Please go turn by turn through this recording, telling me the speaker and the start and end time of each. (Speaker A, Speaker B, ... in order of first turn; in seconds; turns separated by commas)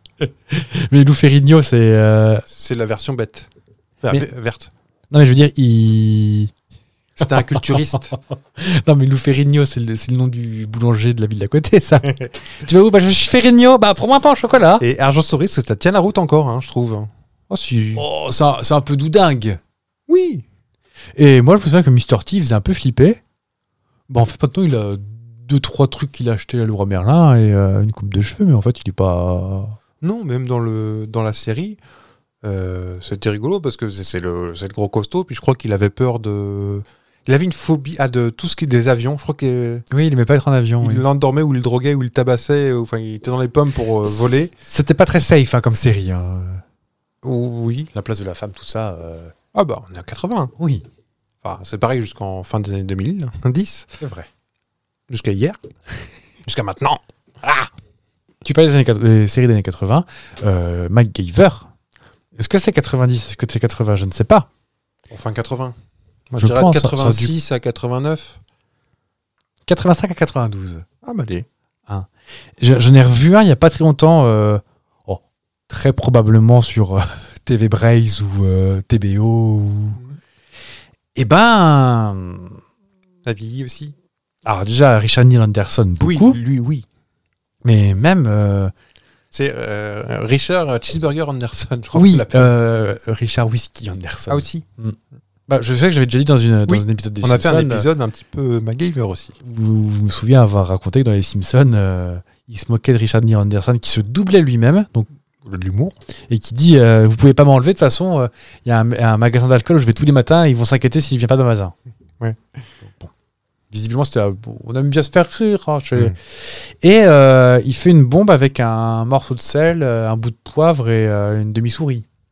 Speaker A: 0.2-2.5, Speaker B: 2.5-3.5, Speaker B: 4.0-4.7, Speaker A: 5.1-6.5, Speaker B: 7.2-8.2, Speaker A: 7.2-8.1, Speaker A: 8.6-14.8, Speaker B: 14.8-18.1, Speaker A: 17.9-19.6, Speaker B: 20.1-20.4, Speaker A: 21.2-23.2, Speaker A: 24.1-29.8, Speaker B: 30.0-31.8, Speaker B: 32.4-39.9, Speaker A: 39.9-41.1, Speaker B: 40.8-44.5, Speaker A: 44.1-46.6, Speaker B: 47.2-47.9, Speaker A: 47.9-49.3, Speaker B: 49.5-50.5, Speaker A: 50.6-50.9, Speaker B: 51.4-53.9, Speaker A: 54.0-54.3, Speaker B: 55.1-55.6, Speaker B: 56.5-57.7, Speaker A: 58.4-61.7, Speaker A: 62.4-64.5, Speaker B: 65.1-65.8, Speaker B: 66.3-68.4, Speaker A: 66.4-67.3, Speaker A: 69.7-70.8, Speaker B: 71.0-71.5, Speaker A: 72.6-80.0, Speaker A: 81.2-82.6, Speaker B: 83.2-84.0, Speaker A: 84.5-86.4, Speaker B: 86.0-86.9, Speaker A: 87.6-88.7, Speaker B: 89.3-92.5, Speaker A: 91.9-97.9, Speaker B: 94.3-94.6, Speaker B: 96.7-99.4, Speaker A: 99.4-105.1, Speaker B: 105.4-106.0, Speaker A: 106.3-111.7, Speaker A: 113.7-122.0